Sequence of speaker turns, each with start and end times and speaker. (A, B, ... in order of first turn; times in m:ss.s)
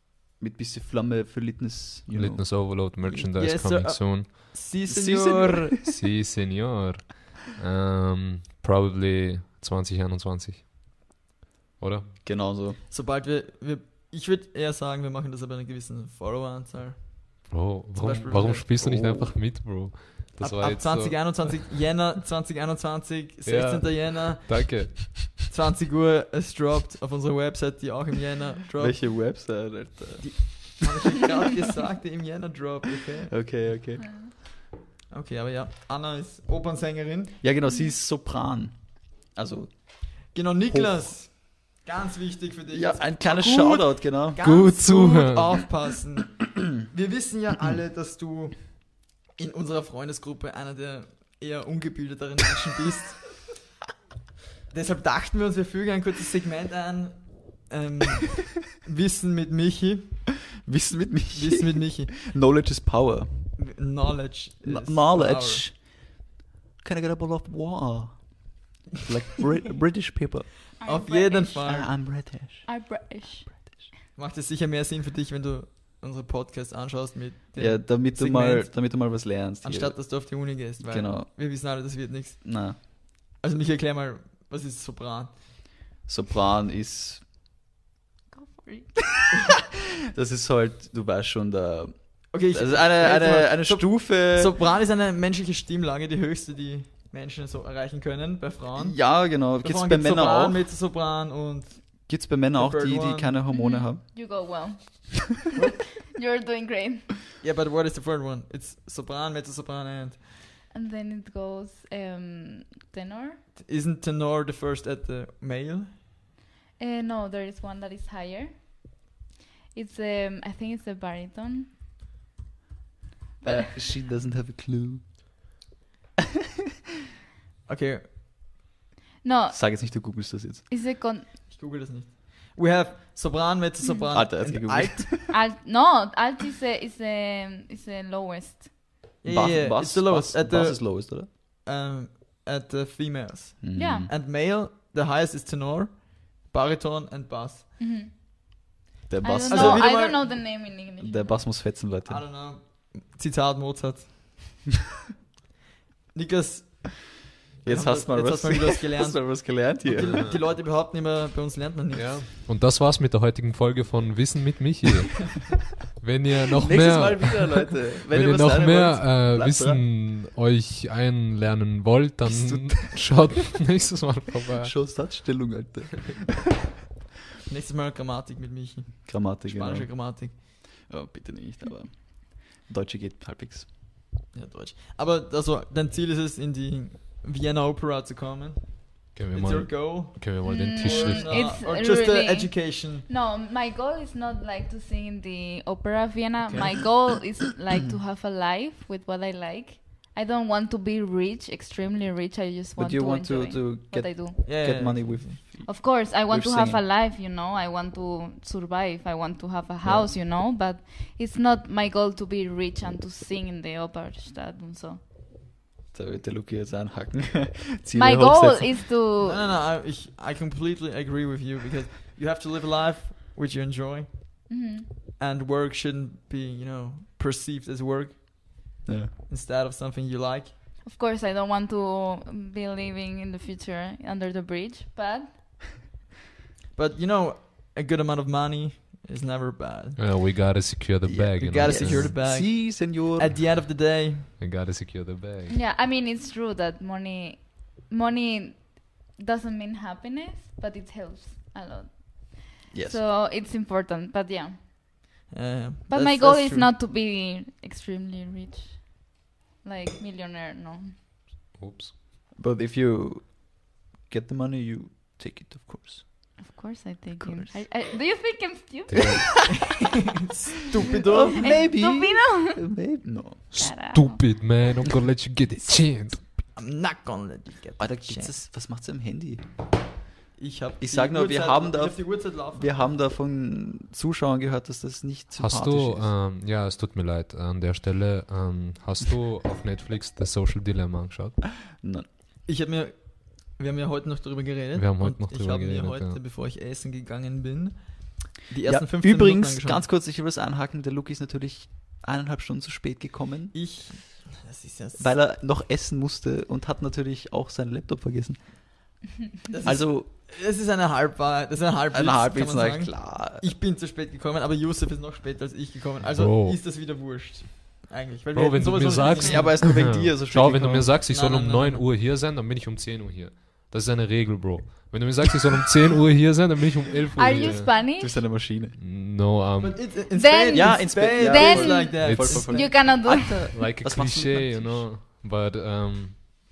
0:00.4-0:02.5 A
0:02.1-0:04.3 B
0:03.0-0:05.8 C
0:04.9-0:06.0 A
0:05.8-0:10.7 B
0:11.8-0:12.2 B
0:12.2-0:12.8 A
0:12.9-0:18.7 C
0:17.5-0:21.5 B
0:18.8-0:19.4 A
0:20.4-0:29.0 C
0:23.5-0:25.2 B
0:28.8-0:30.7 A
0:30.2-0:33.4 C
0:33.3-0:34.3 A
0:35.1-0:37.4 C
0:37.4-0:41.2 A
0:40.3-0:53.5 C
0:42.7-0:44.5 A
0:44.4-0:45.7 B
0:54.7-1:00.3 C
1:00.6-1:03.6 A
1:01.3-1:02.1 C
1:03.6-1:05.6 C
1:04.6-1:06.2 A
1:06.8-1:10.5 A
1:10.8-1:11.9 C
1:10.8-1:13.8 D
1:11.6-1:12.7 A
1:13.5-1:13.9 A
1:14.2-1:19.0 C
1:17.6-1:21.3 A
1:19.6-1:25.4 C
1:22.4-1:22.8 A
1:26.1-1:27.2 A
1:28.3-1:29.0 D
1:30.1-1:34.6 A
1:32.3-1:43.4 C
1:38.8-1:40.6 A
1:42.1-1:44.0 A
1:43.5-1:45.4 D
1:46.0-1:47.1 D
1:47.4-1:50.2 C
1:50.7-1:53.4 D
1:53.6-1:55.9 C
1:56.8-1:59.0 D
1:59.7-2:01.7 D
2:03.4-2:03.7 D
2:03.4-2:05.4 A
2:07.7-2:08.1 C
2:09.2-2:11.3 D
2:09.5-2:10.7 A
2:11.5-2:15.2 C
2:13.8-2:14.1 D
2:14.1-2:15.4 A
2:15.3-2:18.8 D
2:19.2-2:27.7 C
2:19.2-2:21.3 A
2:23.6-2:24.1 A
2:23.8-2:24.1 D
2:27.8-2:28.1 D
2:29.1-2:30.4 A
2:29.2-2:31.4 D
2:29.5-2:30.2 C
2:31.0-2:32.2 A
2:32.1-2:34.2 C
2:36.1-2:42.2 C
2:37.6-2:40.2 A
2:40.0-2:40.3 B
2:41.9-2:55.0 B
2:46.6-2:49.9 A
2:52.3-2:53.3 A
2:54.6-2:56.5 A
2:57.5-3:00.4 C
2:59.1-3:03.7 A
3:04.3-3:13.1 C
3:09.2-3:11.6 B
3:10.4-3:24.4 D
3:16.5-3:17.3 A
3:22.8-3:26.8 A
3:24.4-3:25.4 C
3:25.7-3:35.0 D
3:29.8-3:30.2 A
3:35.9-3:38.9 A
3:38.0-3:39.4 D
3:39.2-3:44.5 C
3:44.5-3:44.9 D
3:45.2-3:48.8 C
3:48.9-3:49.1 A
3:49.3-3:50.5 C
3:50.8-3:55.8 D
3:56.8-4:00.0 C
4:00.0-4:02.1 B
4:01.0-4:03.4 A
4:01.4-4:04.3 C
4:04.4-4:05.6 B
4:05.5-4:14.6 D
4:12.7-4:13.0 A
4:15.3-4:16.7 C
4:15.9-4:21.0 D
4:21.6-4:21.9 B
4:22.4-4:26.4 A
4:26.4-4:29.5 D
4:27.2-4:27.7 A
4:28.9-4:29.3 B
4:29.5-4:31.6 C
4:31.0-4:33.5 A
4:31.4-4:32.7 D
4:33.5-4:36.3 B
4:33.5-4:34.2 D
4:36.6-4:38.4 C
4:37.8-4:39.5 A
4:40.4-4:42.8 C
4:40.8-4:46.1 A
4:45.4-4:51.4 B
4:51.8-4:52.1 A
4:52.5-4:59.8 C
4:54.8-4:56.2 B
4:58.6-5:03.6 A
5:03.5-5:05.1 C
5:05.0-5:08.8 A
5:09.5-5:19.7 C
5:09.7-5:10.1 A
5:11.9-5:13.5 A
5:16.1-5:16.6 B
5:18.3-5:27.8 B
5:19.2-5:20.9 A
5:21.1-5:21.8 C
5:27.2-5:28.2 D
5:27.4-5:28.8 A
5:28.5-5:29.9 B
5:29.6-5:32.7 C
5:30.1-5:33.6 D
5:30.5-5:34.9 A
5:32.0-5:36.2 B